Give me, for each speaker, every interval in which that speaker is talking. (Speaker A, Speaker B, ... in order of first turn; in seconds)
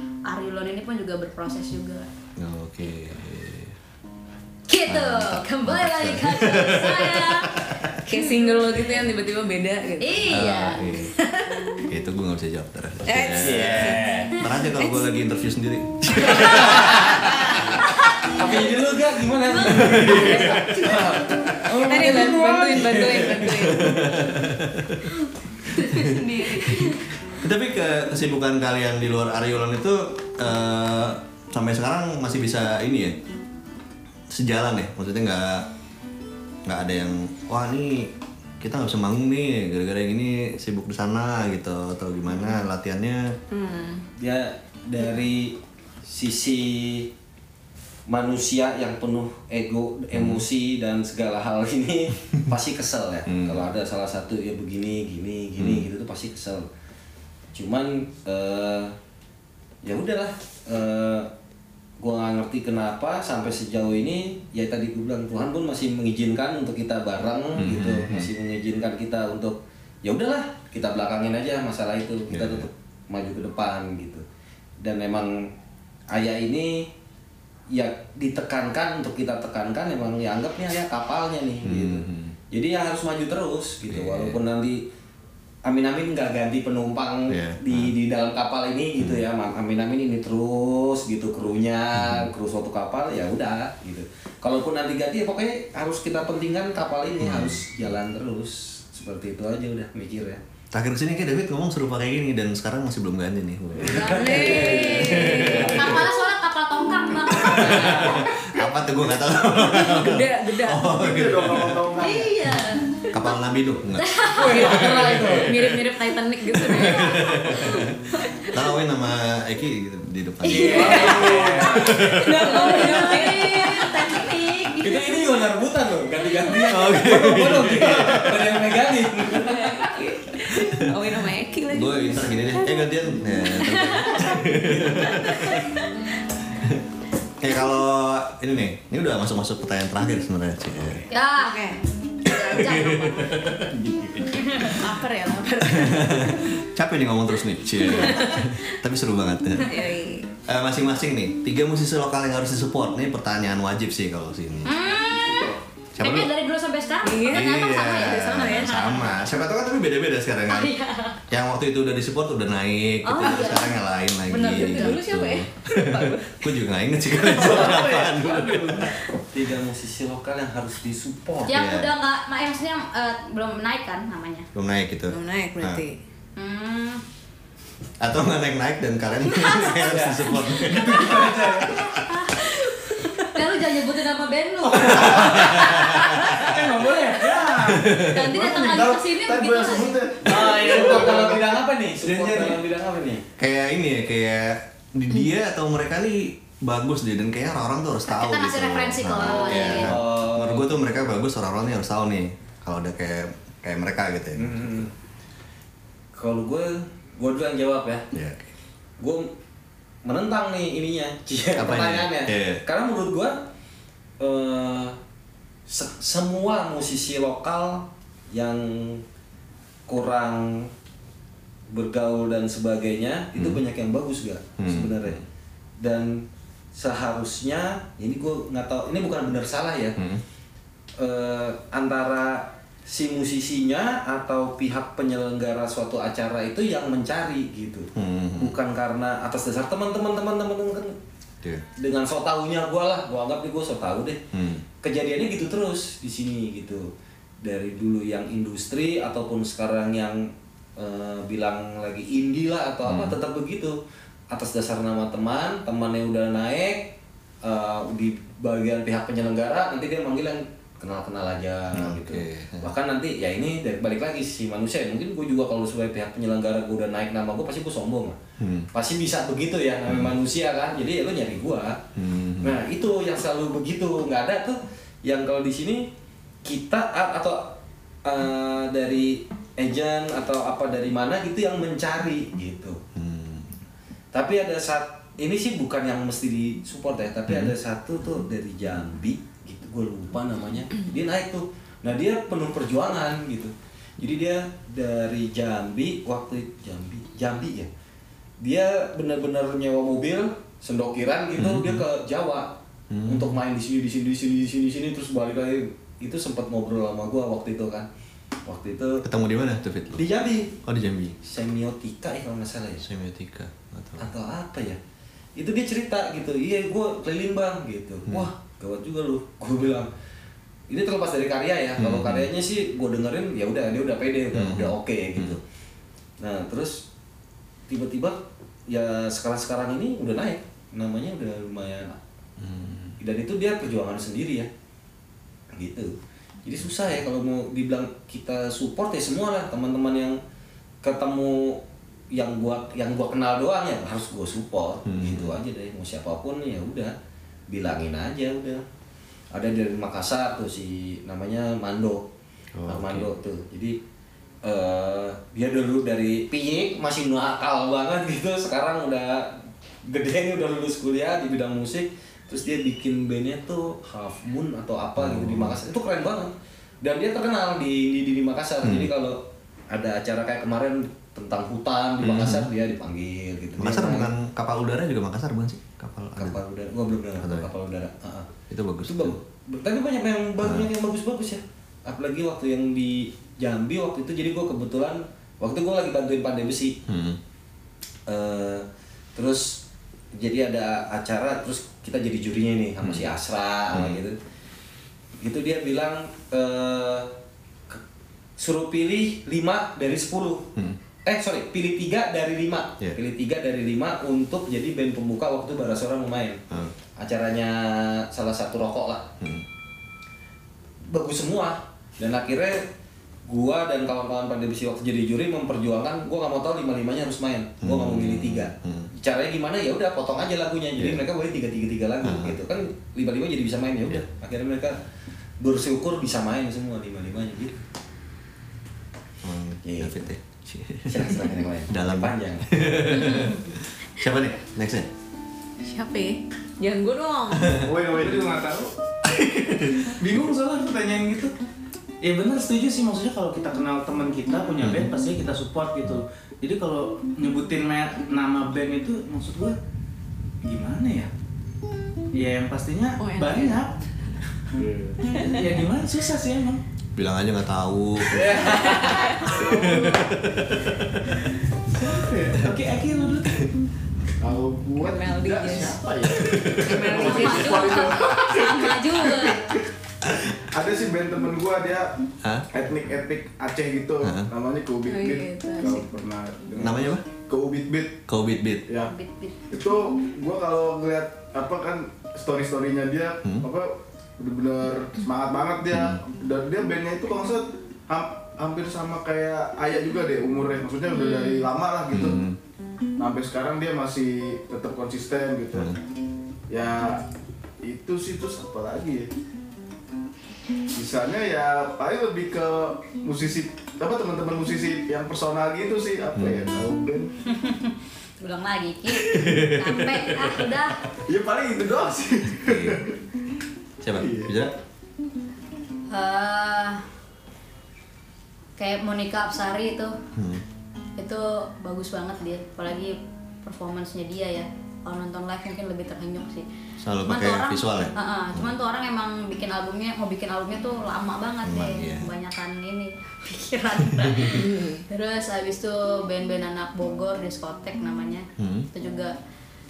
Speaker A: 0.3-2.1, 4.7-9.1, 10.0-10.8, 19.5-20.7, 25.7-27.1, 103.8-108.5, 112.0-113.1, 114.0-114.9, 116.6-118.6, 120.4-125.4, 134.0-134.3, 141.1-143.3, 144.3-144.8, 154.7-158.9, 160.5-161.2, 163.1-163.8, 164.5-164.9, 171.5-174.5, 176.4-177.0, 181.7-186.1, 188.0-190.0, 198.1-199.9, 433.0-433.4, 459.2-460.0, 466.9-469.4, 478.8-479.4, 507.3-510.8, 515.9-516.8, 518.6-520.0, 521.0-526.5, 527.0-539.1
Speaker B: 2.4-3.8, 4.9-8.0, 10.3-11.1, 11.9-17.2, 19.6-21.6, 23.1-25.1, 25.8-33.2, 34.3-35.7, 36.6-43.4, 50.1-50.5, 53.3-53.7, 55.6-55.9, 67.6-68.3, 72.3-72.7, 81.6-82.4, 83.9-84.4, 87.3-87.9, 89.0-89.2, 92.0-92.3, 97.2-97.6, 100.7-106.0, 107.5-111.8, 113.1-115.5, 116.6-121.2, 121.8-122.5, 126.7-129.1, 131.7-135.7, 137.4-141.1, 142.3-143.7, 145.7-149.8, 150.5-154.8, 155.9-156.3, 157.2-160.7, 161.3-168.9, 171.5-171.9, 174.6-175.8, 178.0-182.1, 184.7-186.4, 187.7-188.3, 193.4-204.9, 208.1-208.5, 211.6-212.6, 223.4-223.6, 224.6-225.2, 230.0-230.2, 237.9-238.6, 244.3-244.6, 252.8-253.2, 261.7-262.7, 268.4-268.7, 269.9-270.2, 272.0-272.6, 282.9-283.6, 287.3-287.6, 301.4-301.9, 302.9-303.4, 309.0-310.1, 310.6-311.2, 312.8-314.1, 321.8-322.3, 324.3-325.4, 332.4-333.0, 344.9-345.4, 352.6-353.1, 365.0-365.6, 368.6-368.9, 372.0-372.5, 373.6-376.4, 377.2-377.5, 378.5-379.2, 380.4-380.7, 386.9-387.2, 392.8-393.1, 393.7-394.0, 409.2-409.5, 417.6-418.9, 420.8-421.1, 422.0-422.4, 429.2-434.9, 439.1-439.9, 444.6-444.9, 457.0-458.6, 459.4-461.2, 466.2-466.9, 474.0-474.3, 476.6-477.1, 478.1-478.6, 485.7-486.0, 491.9-492.4, 506.1-506.7, 508.9-510.4, 512.4-512.8, 513.8-514.5, 520.1-520.4, 526.8-528.5, 531.4-532.1, 533.9-534.4, 538.4-538.7
Speaker C: 8.1-10.4, 11.2-11.5, 13.1-14.0, 14.7-15.1, 16.2-17.6, 21.9-24.1, 43.5-44.0, 104.1-105.8, 109.6-110.9, 114.7-117.5, 120.7-124.2, 129.4-134.2, 135.1-135.9, 141.4-141.8, 144.8-146.5, 147.8-148.7, 149.7-150.3, 157.1-159.0, 164.3-166.5, 175.1-176.0, 435.6-437.6, 453.0-453.6, 458.6-459.7, 464.8-465.8, 466.6-468.3, 474.9-475.9, 534.3-534.8
Speaker D: 13.3-14.3, 16.3-17.2, 18.3-23.5, 44.2-47.1, 48.1-56.7, 57.5-59.0, 59.8-61.3, 62.0-74.2, 74.8-75.5, 76.1-76.9, 77.7-84.8, 85.7-100.4, 103.8-106.1, 107.6-108.0, 114.3-115.8, 120.5-123.1, 124.8-129.9, 143.6-144.6, 167.2-171.6, 179.8-180.3, 181.1-181.4, 186.5-187.7, 190.2-193.2, 199.2-201.1, 204.4-204.9, 206.2-208.1, 209.0-209.3, 210.0-213.4, 214.2-215.0, 215.7-219.0, 219.9-220.7, 221.7-225.2, 225.8-229.9, 231.0-240.9, 241.8-244.2, 244.8-246.9, 247.4-253.8, 254.3-268.2, 268.7-271.8, 272.4-275.9, 276.4-282.8, 284.1-297.7, 298.4-302.5, 303.1-307.9, 308.5-309.0, 310.0-310.5, 311.2-312.9, 314.0-314.8, 315.4-319.9, 320.7-325.4, 326.2-326.8, 327.7-331.9, 333.0-334.5, 335.5-340.2, 340.8-346.9, 347.5-348.6, 349.3-352.1, 352.7-353.8, 354.4-374.1, 376.2-378.3, 378.9-386.8, 388.1-389.6, 390.1-394.2, 395.2-397.1, 398.4-400.5, 401.1-406.4, 407.0-409.1, 410.9-412.7, 413.3-424.8, 425.4-427.6, 429.6-430.1, 430.9-432.6, 458.1-459.1
Speaker E: 111.0-112.4, 188.3-191.6, 454.6-454.9, 464.2-469.6, 470.1-472.0, 472.5-478.0, 478.7-478.9, 479.5-492.2, 493.0-495.8, 496.5-497.0, 497.6-499.1, 500.7-507.1, 511.1-513.0, 514.0-514.4
Speaker F: 121.5-121.9, 167.3-168.6, 180.7-181.7, 186.3-187.9, 190.4-191.3, 192.0-192.6, 437.6-438.7, 440.0-441.3, 442.0-449.6, 450.4-451.1, 452.1-453.8, 455.3-456.6, 461.7-463.4